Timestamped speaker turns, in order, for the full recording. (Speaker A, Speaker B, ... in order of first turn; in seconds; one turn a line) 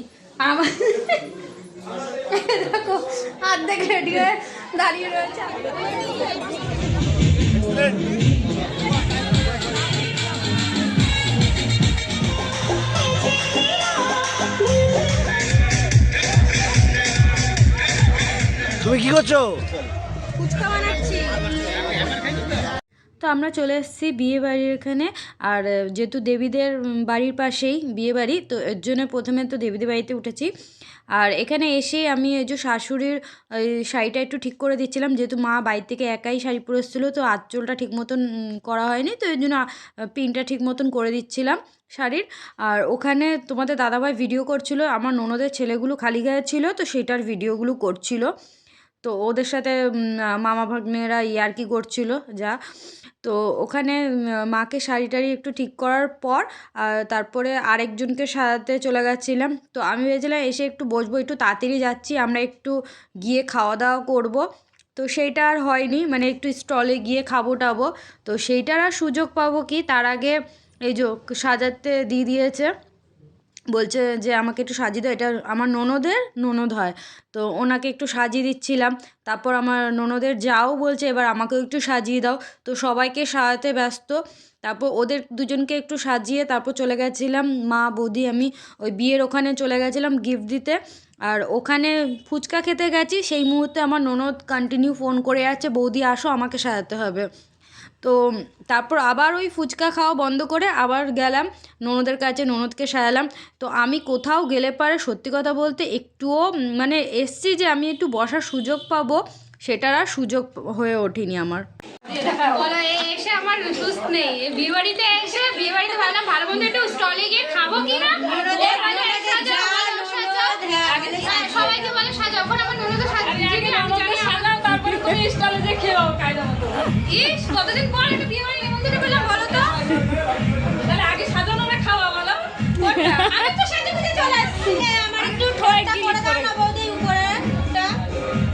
Speaker A: 0.5-1.1
Speaker A: 2.4-3.8
Speaker B: 3.4-5.5
Speaker A: 4.9-6.5
Speaker A: 20.5-21.4
Speaker B: 23.2-30.5
Speaker B: 31.1-48.3
Speaker B: 49.0-52.6
Speaker B: 53.2-64.4
Speaker B: 65.0-72.7
Speaker B: 73.7-97.2
Speaker B: 98.7-111.6
Speaker A: 112.1-124.3
Speaker C: 118.6-119.5
Speaker C: 120.8-121.7
Speaker C: 123.2-127.0
Speaker A: 127.0-129.8
Speaker C: 130.8-132.7
Speaker B: 132.8-133.6
Speaker A: 132.8-137.9
Speaker C: 135.1-136.6
Speaker B: 136.7-137.0